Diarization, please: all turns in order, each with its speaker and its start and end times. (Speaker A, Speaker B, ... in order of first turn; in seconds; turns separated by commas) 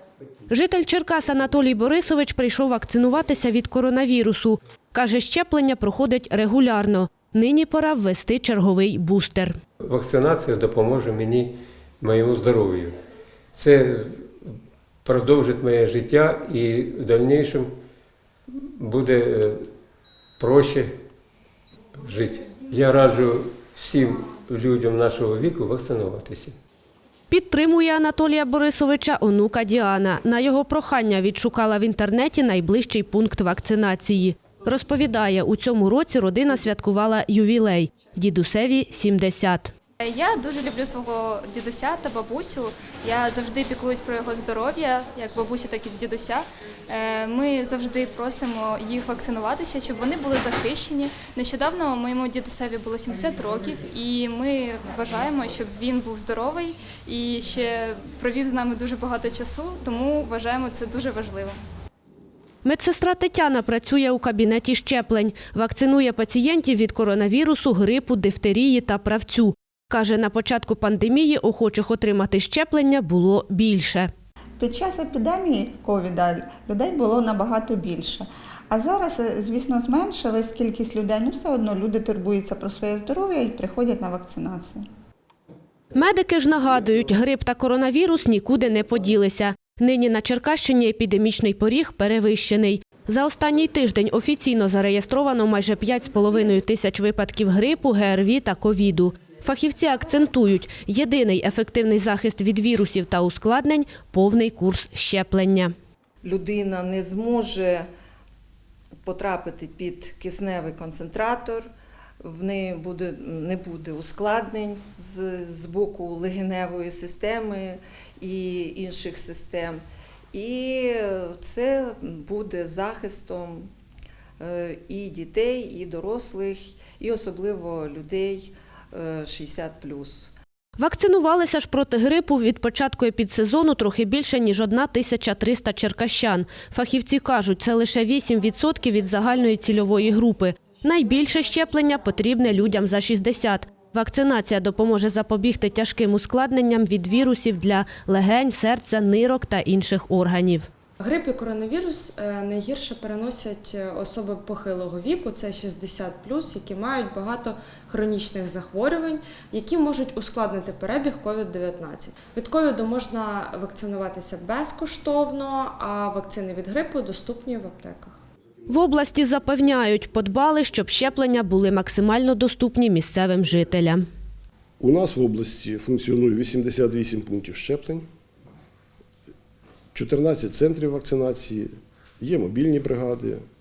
Speaker A: 0.5-9.6, Speaker B: 9.8-13.0, Speaker B: 13.5-14.5, Speaker B: 15.0-17.7, Speaker B: 18.5-19.6, Speaker B: 20.4-20.9, Speaker B: 22.0-26.5, Speaker A: 27.3-39.7, Speaker C: 40.0-61.6, Speaker A: 62.6-74.1, Speaker D: 74.6-84.8, Speaker A: 85.9-105.7, Speaker E: 106.2-107.5, Speaker E: 109.9-111.0, Speaker E: 112.8-113.1, Speaker E: 113.6-114.3, Speaker E: 115.0-117.0, Speaker E: 119.5-119.7, Speaker E: 124.4-126.4, Speaker E: 127.3-128.4, Speaker A: 130.8-150.7, Speaker F: 151.0-168.2, Speaker A: 168.7-174.0, Speaker G: 174.8-178.1, Speaker G: 179.9-181.7, Speaker G: 182.2-183.4